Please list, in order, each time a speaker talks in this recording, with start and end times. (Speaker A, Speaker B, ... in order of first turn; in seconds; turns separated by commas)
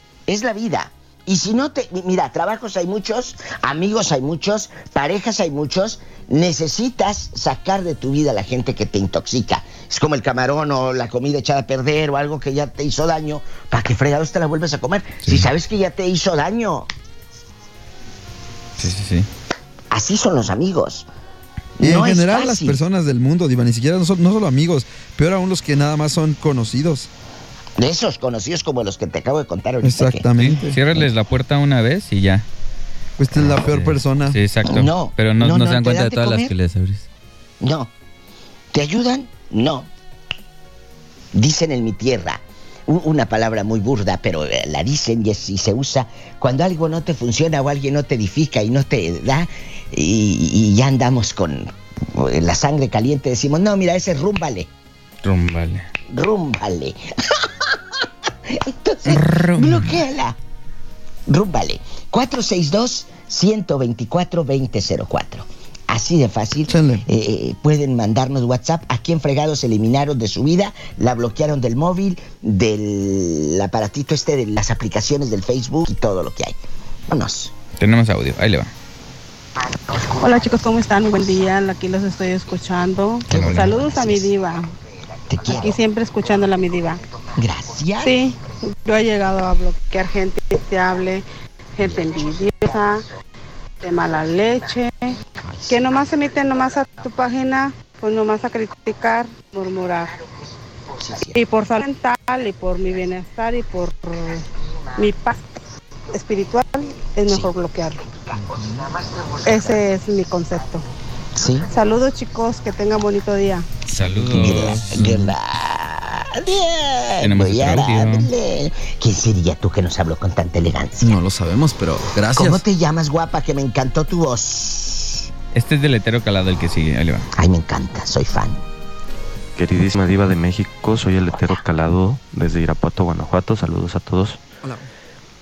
Speaker A: 0.3-16.9, Speaker B: 18.8-19.3, Speaker A: 19.9-21.1, Speaker A: 21.8-22.8, Speaker C: 21.8-27.1, Speaker A: 27.8-30.3, Speaker C: 29.8-31.0, Speaker B: 30.4-32.5, Speaker C: 33.2-34.4, Speaker B: 33.4-37.0, Speaker A: 34.6-36.5, Speaker A: 37.6-37.9, Speaker A: 38.7-39.9, Speaker A: 41.3-54.7, Speaker B: 55.2-55.9, Speaker A: 56.1-60.4, Speaker B: 59.1-60.0, Speaker A: 61.3-76.6, Speaker C: 66.7-67.0, Speaker A: 77.1-77.5, Speaker B: 77.8-78.7, Speaker D: 80.1-84.7, Speaker A: 83.3-84.3, Speaker B: 83.3-83.7, Speaker A: 85.3-85.8, Speaker D: 85.5-87.0, Speaker A: 87.4-88.2, Speaker D: 88.0-91.2, Speaker D: 91.8-93.0, Speaker D: 93.8-95.2, Speaker A: 95.5-95.8, Speaker D: 95.7-100.1, Speaker A: 101.0-101.4, Speaker D: 101.3-104.5, Speaker D: 105.0-105.4, Speaker D: 106.1-108.0, Speaker A: 108.6-109.8, Speaker D: 109.5-110.8, Speaker A: 111.4-111.7, Speaker D: 111.7-113.7, Speaker B: 113.9-114.9, Speaker C: 114.0-115.3, Speaker A: 114.2-121.2, Speaker B: 117.2-118.3, Speaker C: 121.0-122.7, Speaker A: 122.3-125.3, Speaker B: 125.5-127.3, Speaker A: 127.3-128.6, Speaker E: 129.6-134.4